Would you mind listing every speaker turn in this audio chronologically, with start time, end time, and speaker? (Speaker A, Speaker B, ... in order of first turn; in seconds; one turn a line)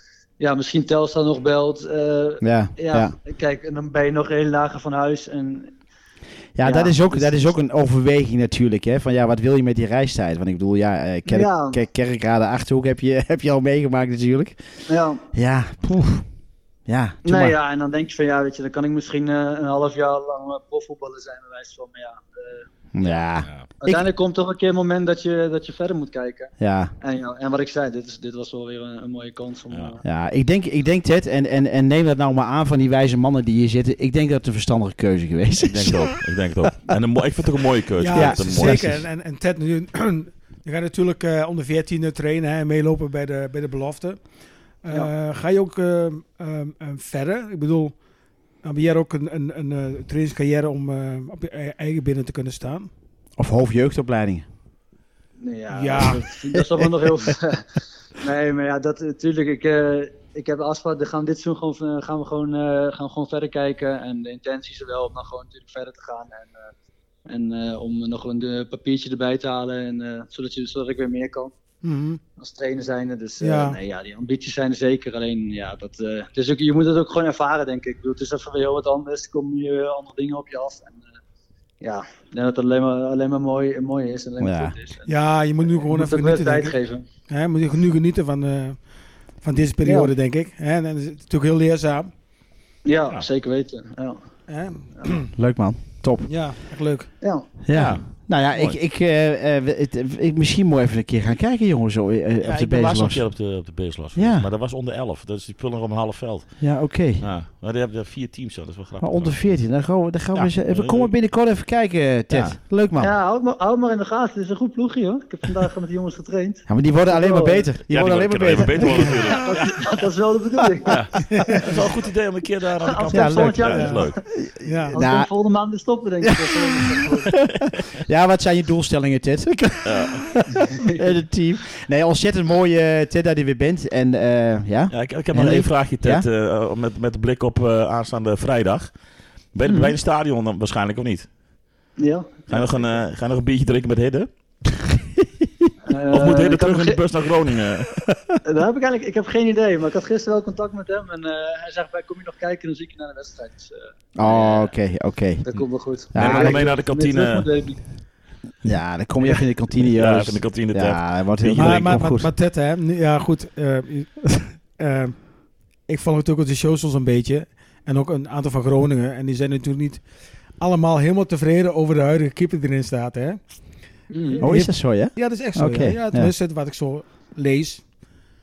Speaker A: 0.4-5.8
Speaker B: 2.4-3.1
Speaker B: 6.6-14.6
Speaker A: 6.6-7.4
Speaker A: 11.3-11.8
Speaker A: 14.9-15.2
Speaker B: 15.3-16.3
Speaker B: 16.9-17.6
Speaker A: 17.2-23.1
Speaker B: 22.9-24.1
Speaker A: 23.8-30.0
Speaker B: 26.6-26.9
Speaker C: 29.7-29.9
Speaker B: 30.0-36.1
Speaker C: 35.6-39.0
Speaker D: 38.0-44.3
Speaker B: 38.1-38.9
Speaker D: 44.8-48.0
Speaker D: 48.6-52.9
Speaker B: 53.4-54.5
Speaker A: 55.4-66.6
Speaker D: 55.7-56.2
Speaker A: 67.3-71.5
Speaker D: 71.8-72.2
Speaker A: 72.4-81.1
Speaker D: 73.4-73.8
Speaker A: 81.8-85.1
Speaker B: 84.4-84.8
Speaker D: 85.1-86.8
Speaker A: 85.8-87.1
Speaker D: 87.3-88.9
Speaker D: 89.4-92.1
Speaker A: 89.8-90.1
Speaker A: 92.8-94.2
Speaker D: 94.5-95.3
Speaker B: 95.3-96.3
Speaker D: 96.3-97.1
Speaker A: 97.2-97.5
Speaker B: 97.6-103.3
Speaker C: 97.7-98.8
Speaker C: 102.4-109.5
Speaker B: 104.2-104.5
Speaker B: 106.6-107.2
Speaker B: 109.0-113.1
Speaker C: 110.3-111.1
Speaker C: 112.3-112.6
Speaker A: 113.0-117.7
Speaker B: 116.7-119.3
Speaker C: 117.9-120.0
Speaker A: 119.1-121.7
Speaker C: 120.9-124.2
Speaker D: 121.3-121.7
Speaker A: 122.9-124.2
Speaker B: 123.1-123.8
Speaker D: 123.7-124.0
Speaker B: 124.5-125.3
Speaker D: 124.6-125.0
Speaker A: 124.9-127.4
Speaker B: 126.2-126.5
Speaker B: 128.0-136.3
Speaker C: 129.8-130.3
Speaker A: 130.7-131.0
Speaker C: 134.9-138.9
Speaker C: 139.5-141.3
Speaker A: 139.7-139.9
Speaker A: 142.0-143.0
Speaker C: 142.5-144.3
Speaker A: 145.9-147.0
Speaker C: 146.1-148.1
Speaker A: 148.4-154.7
Speaker B: 154.2-155.4
Speaker A: 155.4-157.8
Speaker B: 156.1-156.7
Speaker C: 156.2-157.5
Speaker B: 158.6-162.3
Speaker C: 159.9-162.0
Speaker D: 161.6-170.0
Speaker D: 170.6-173.4
Speaker A: 174.1-174.4
Speaker D: 174.3-177.9
Speaker B: 174.4-176.3